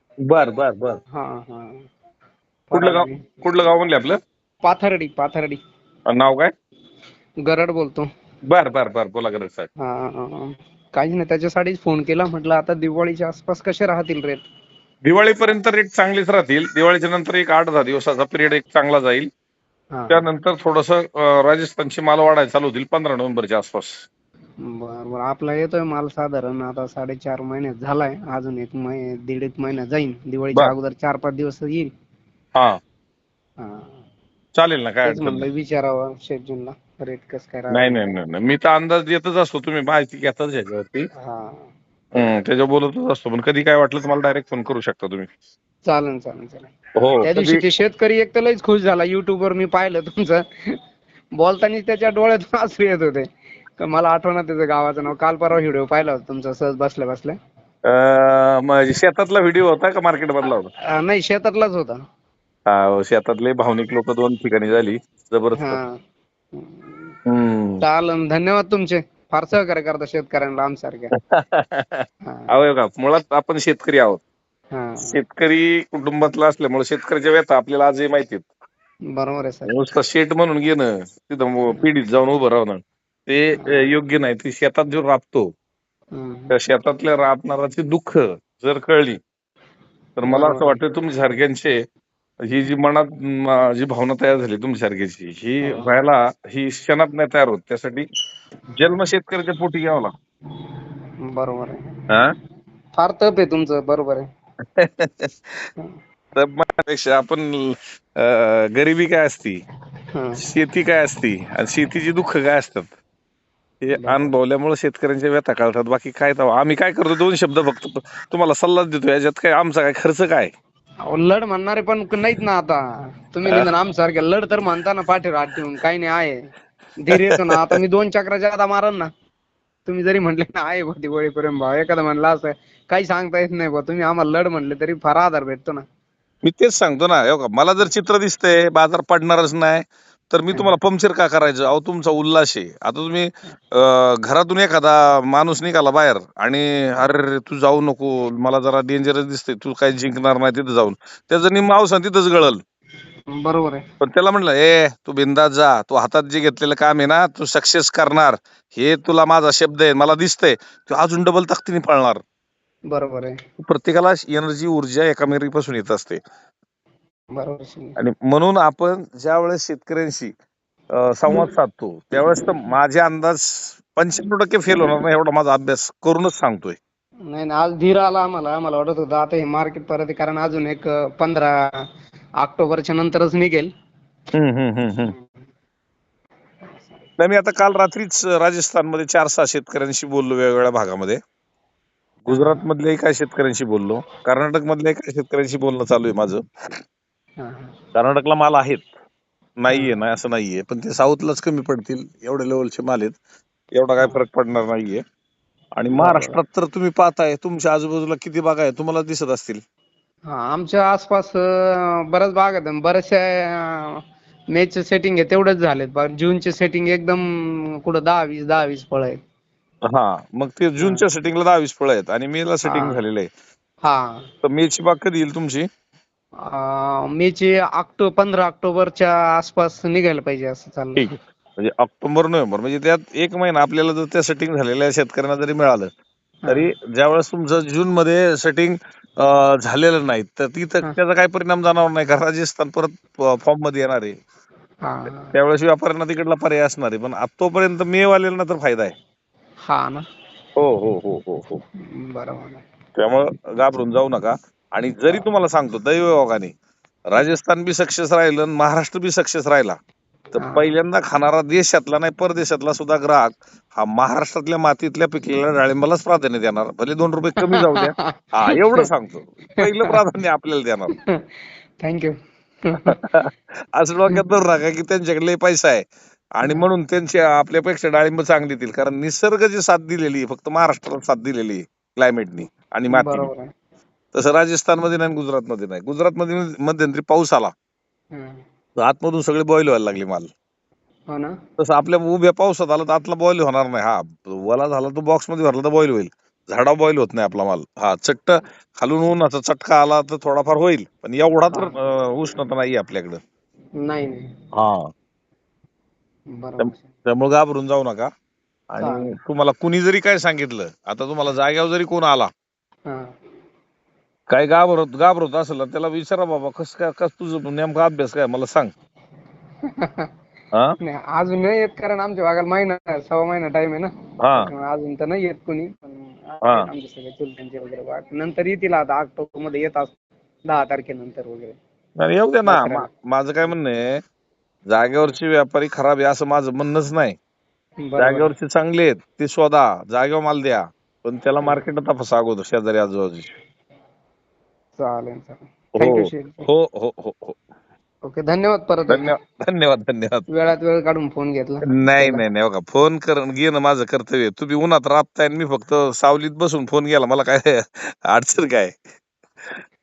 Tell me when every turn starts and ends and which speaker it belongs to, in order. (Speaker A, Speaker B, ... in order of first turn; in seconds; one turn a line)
Speaker A: 0.2-1.0
Speaker B: 1.1-1.9
Speaker B: 2.7-3.2
Speaker A: 2.7-4.2
Speaker B: 4.6-5.6
Speaker A: 6.1-6.5
Speaker B: 7.5-8.1
Speaker A: 8.5-9.7
Speaker B: 9.8-14.4
Speaker A: 15.1-19.3
Speaker B: 19.9-20.2
Speaker A: 20.1-24.0
Speaker B: 24.6-31.9
Speaker B: 33.6-34.0
Speaker A: 34.5-35.5
Speaker B: 35.0-38.2
Speaker A: 37.7-41.1
Speaker B: 41.2-42.3
Speaker A: 42.1-45.3
Speaker B: 45.9-46.7
Speaker A: 47.0-47.6
Speaker B: 47.2-50.8
Speaker B: 51.4-53.2
Speaker B: 53.8-57.4
Speaker A: 57.9-60.7
Speaker B: 60.9-62.0
Speaker A: 62.7-65.8
Speaker B: 65.6-66.0
Speaker B: 66.5-67.2
Speaker A: 67.3-67.8
Speaker B: 67.8-71.1
Speaker A: 71.1-74.2
Speaker B: 72.3-72.5
Speaker B: 74.7-75.2
Speaker A: 75.0-78.5
Speaker B: 79.1-79.7
Speaker A: 79.7-85.5
Speaker B: 83.6-83.9
Speaker B: 86.1-86.5
Speaker A: 86.5-89.2
Speaker A: 90.2-91.7
Speaker B: 90.3-90.8
Speaker A: 92.5-98.1
Speaker B: 95.7-95.9
Speaker A: 98.8-100.1
Speaker B: 101.2-102.0
Speaker B: 103.0-104.3
Speaker A: 104.8-105.7
Speaker A: 106.3-109.6
Speaker B: 110.1-110.4
Speaker A: 110.4-112.9
Speaker A: 113.8-120.5
Speaker B: 113.9-114.3
Speaker B: 121.1-129.1
Speaker B: 129.9-135.8
Speaker A: 136.4-152.6
Speaker B: 153.3-153.8
Speaker A: 154.0-162.2
Speaker B: 162.9-163.4
Speaker A: 163.6-166.2
Speaker B: 167.3-168.0
Speaker A: 168.0-170.3
Speaker A: 171.0-176.8
Speaker B: 177.3-181.5
Speaker B: 182.4-183.7
Speaker A: 184.3-185.1
Speaker B: 186.6-187.1
Speaker A: 187.2-191.2
Speaker A: 192.3-196.4
Speaker B: 192.3-192.6
Speaker B: 197.4-197.7
Speaker A: 197.9-198.9
Speaker A: 199.6-203.2
Speaker B: 199.7-200.0
Speaker A: 203.8-205.0
Speaker A: 205.8-209.6
Speaker B: 205.9-206.4
Speaker B: 210.3-214.0
Speaker B: 214.5-219.2
Speaker A: 219.9-223.3
Speaker B: 222.7-223.0
Speaker B: 223.8-224.2
Speaker A: 224.4-225.7
Speaker B: 226.4-231.1
Speaker A: 231.0-235.9
Speaker A: 236.5-244.1
Speaker B: 244.8-245.3
Speaker A: 245.3-248.9
Speaker B: 249.7-250.1
Speaker A: 250.6-251.6
Speaker B: 251.8-252.6
Speaker A: 253.0-256.5
Speaker A: 257.1-259.8
Speaker A: 260.3-270.9
Speaker B: 260.4-260.7
Speaker B: 267.5-268.9
Speaker B: 271.8-272.1
Speaker B: 272.6-273.0
Speaker A: 272.9-283.3
Speaker B: 282.9-283.5
Speaker A: 284.1-287.5
Speaker B: 288.1-288.4
Speaker A: 288.8-290.3
Speaker A: 291.6-303.2
Speaker B: 303.8-304.2
Speaker A: 304.6-304.9
Speaker B: 306.3-306.9
Speaker A: 306.6-308.1
Speaker A: 308.7-312.3
Speaker B: 308.8-309.1
Speaker A: 314.3-318.7
Speaker B: 319.7-320.1
Speaker B: 320.8-329.9
Speaker A: 324.2-324.5
Speaker B: 330.5-331.6
Speaker A: 332.0-334.0
Speaker B: 332.5-332.9
Speaker A: 334.7-337.2
Speaker B: 337.8-338.3
Speaker A: 338.0-343.3
Speaker B: 344.8-346.5
Speaker A: 345.8-347.4
Speaker B: 348.1-349.1
Speaker A: 348.9-350.3
Speaker B: 350.3-352.2
Speaker A: 351.7-358.8